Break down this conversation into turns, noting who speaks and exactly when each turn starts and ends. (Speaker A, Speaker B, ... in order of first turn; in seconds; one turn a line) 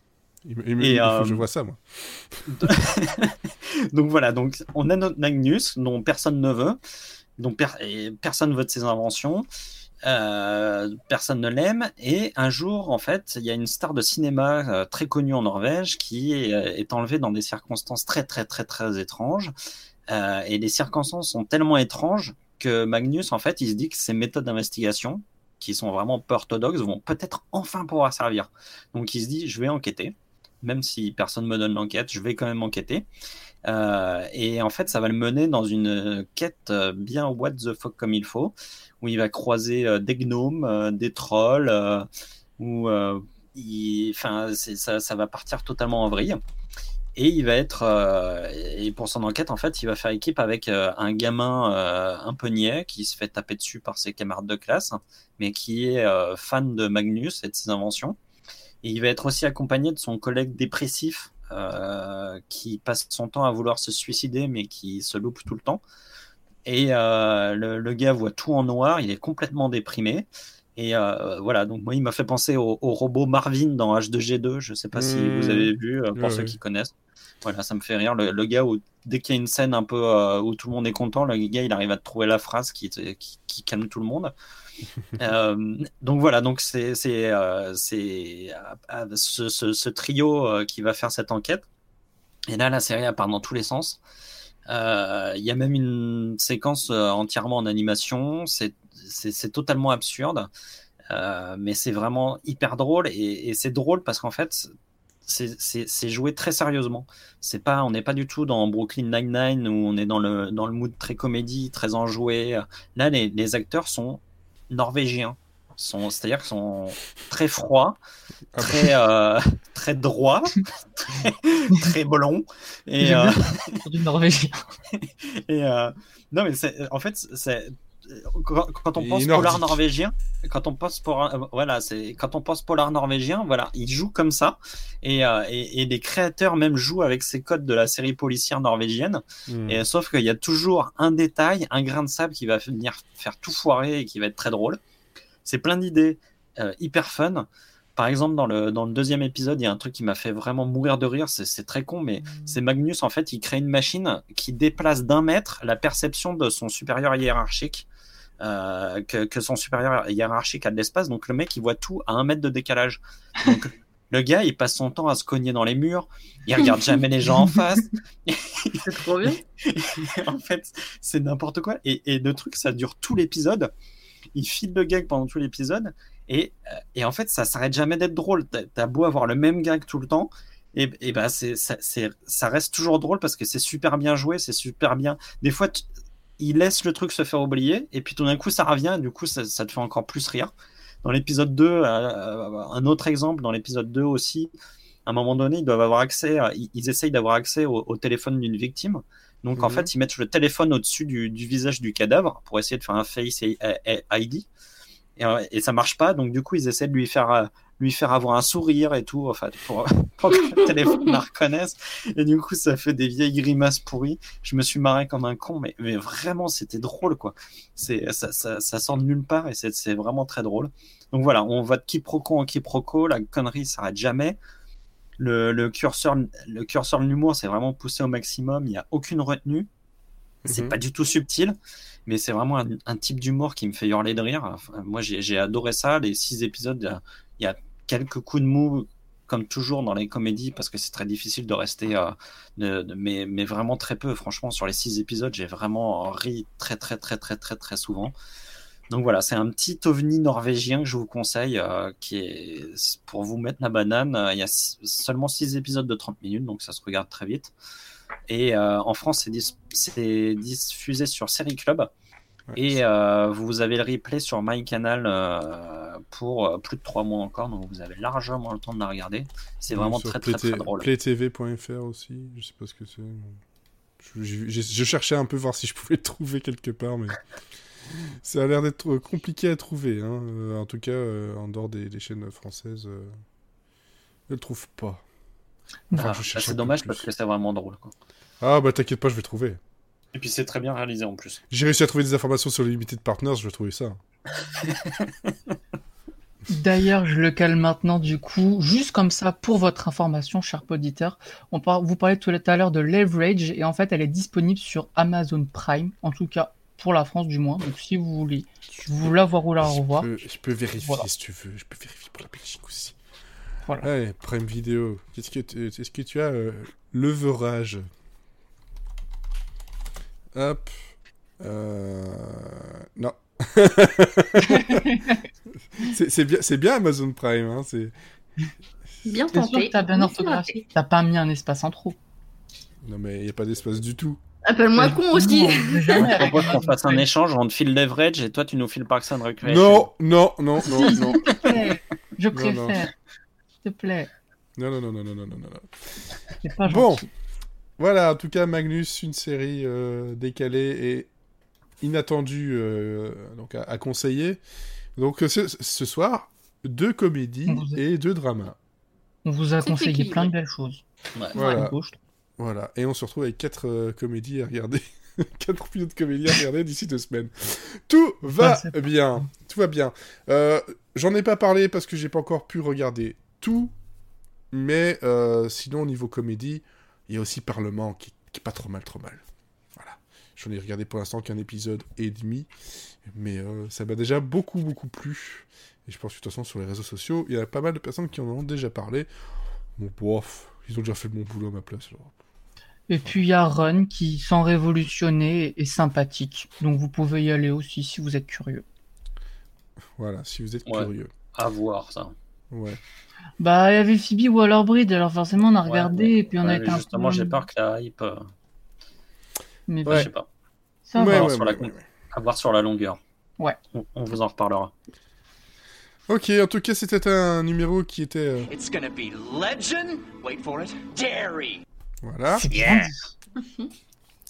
Speaker A: 0.4-2.7
Speaker B: 0.8-1.4
Speaker B: 2.5-6.8
Speaker B: 7.4-9.4
Speaker B: 10.0-19.5
Speaker B: 20.1-33.1
Speaker B: 33.6-42.1
Speaker B: 42.6-46.4
Speaker B: 47.1-58.2
Speaker B: 58.8-65.8
Speaker B: 66.6-76.9
Speaker A: 74.9-76.5
Speaker B: 77.4-84.3
Speaker B: 85.2-91.7
Speaker B: 92.5-94.0
Speaker B: 94.7-100.5
Speaker B: 101.1-104.7
Speaker B: 105.2-118.0
Speaker A: 118.5-118.9
Speaker B: 118.6-123.8
Speaker C: 123.0-124.7
Speaker B: 124.9-144.8
Speaker A: 128.9-129.8
Speaker A: 139.5-139.8
Speaker B: 145.4-157.8
Speaker B: 158.4-168.8
Speaker D: 168.8-169.4
Speaker B: 169.6-173.7
Speaker B: 174.3-185.8
Speaker B: 186.4-190.5
Speaker B: 191.0-194.5
Speaker B: 195.1-204.5
Speaker A: 199.6-199.9
Speaker B: 205.2-224.4
Speaker B: 225.2-229.7
Speaker A: 230.4-230.8
Speaker B: 230.4-231.6
Speaker B: 232.1-248.1
Speaker B: 248.9-257.5
Speaker B: 258.3-261.9
Speaker A: 262.5-262.8
Speaker B: 262.6-270.9
Speaker A: 269.7-273.4
Speaker A: 274.0-277.2
Speaker A: 278.2-283.2
Speaker A: 284.3-285.0
Speaker A: 285.9-287.0
Speaker B: 285.9-287.9
Speaker A: 288.4-289.6
Speaker B: 290.1-291.4
Speaker A: 291.5-294.0
Speaker B: 294.6-295.3
Speaker C: 296.5-310.1
Speaker A: 309.9-312.9
Speaker C: 310.8-311.1
Speaker A: 313.8-317.9
Speaker A: 320.3-320.9
Speaker A: 321.4-325.0
Speaker C: 324.5-325.2
Speaker A: 325.8-327.9
Speaker D: 329.0-330.6
Speaker C: 329.3-331.9
Speaker A: 332.8-334.2
Speaker D: 334.4-336.4
Speaker C: 334.8-337.0
Speaker B: 336.0-339.9
Speaker A: 339.4-341.6
Speaker C: 340.6-342.9
Speaker A: 342.3-342.7
Speaker C: 343.6-344.1
Speaker A: 344.6-346.0
Speaker C: 346.4-347.1
Speaker A: 346.6-347.1
Speaker A: 347.8-351.1
Speaker A: 351.8-354.4
Speaker A: 354.9-358.6
Speaker C: 357.5-357.8
Speaker C: 359.2-360.8
Speaker D: 359.6-360.3
Speaker A: 361.3-361.7
Speaker C: 361.3-362.0
Speaker A: 362.4-373.7
Speaker C: 368.3-369.2
Speaker A: 374.5-379.2
Speaker A: 379.8-382.5
Speaker A: 383.0-389.1
Speaker A: 389.8-392.1
Speaker C: 392.9-398.6
Speaker A: 400.0-401.1
Speaker B: 400.7-402.1
Speaker A: 402.5-402.8
Speaker C: 403.4-407.4
Speaker B: 405.6-408.3
Speaker C: 409.7-410.1
Speaker B: 409.9-410.2
Speaker C: 410.9-411.3
Speaker A: 410.9-411.8
Speaker B: 411.0-413.0
Speaker B: 413.7-414.7
Speaker A: 416.1-418.5
Speaker E: 418.5-421.6
Speaker A: 422.0-422.5
Speaker C: 422.3-423.0
Speaker B: 422.5-422.9